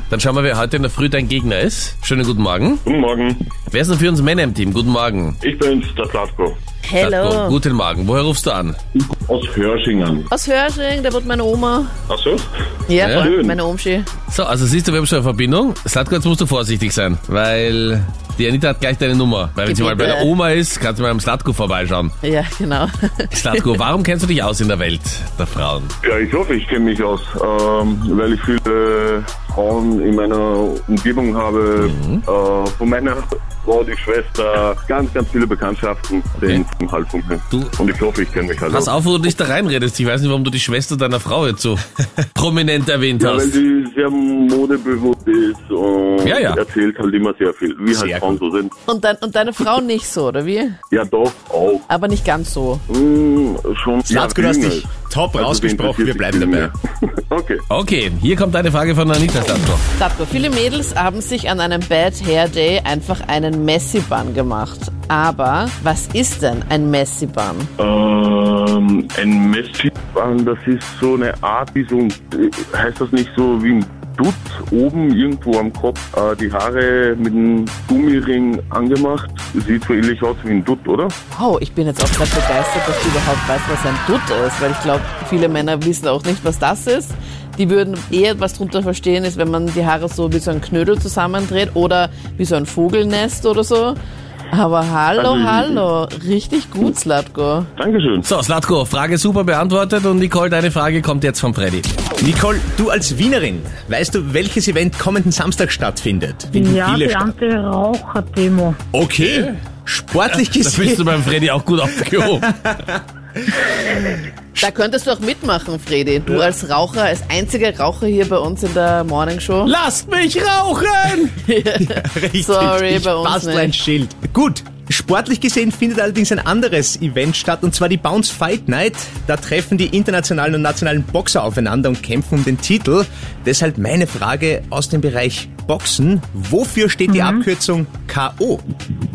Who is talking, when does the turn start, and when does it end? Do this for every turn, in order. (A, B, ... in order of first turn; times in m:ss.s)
0:00.1-0:02.8 A
0:02.9-0:03.5 B
0:03.7-0:05.4 A
0:05.4-0:06.6 B
0:06.8-0:07.6 C
0:07.0-0:08.8 A
0:09.0-0:10.3 B
0:10.3-0:11.9 C
0:12.1-0:12.5 B
0:12.9-0:14.1 C
0:13.0-0:13.3 A
0:13.1-0:13.6 B
0:14.3-0:22.2 A
0:19.7-0:20.3 C
0:22.2-0:23.8 C
0:23.3-0:25.9 A
0:26.0-0:39.0 B
0:31.8-0:32.2 A
0:36.4-0:36.6 A
0:38.7-0:43.6 A
0:43.2-0:48.7 B
0:46.2-0:46.6 A
0:47.9-0:48.4 D
0:48.9-0:50.8 C
0:50.9-0:51.9 B
0:51.9-0:52.8 C
0:52.9-0:57.6 B
0:54.1-0:56.7 D
0:57.7-0:59.8 A
1:00.0-1:07.7 C
1:07.8-1:21.2 B
1:21.3-1:34.0 C
1:34.5-1:37.7 C
1:35.2-1:35.8 B
1:37.8-1:38.3 B
1:38.2-1:41.9 A
1:42.2-1:47.4 D
1:46.5-1:48.8 E
1:48.9-1:51.3 D
1:50.2-1:52.5 A
1:51.9-1:54.1 D
1:53.9-1:59.7 C
1:59.6-2:01.4 A
2:01.3-2:03.8 C
2:01.8-2:18.6 D
2:17.1-2:17.5 E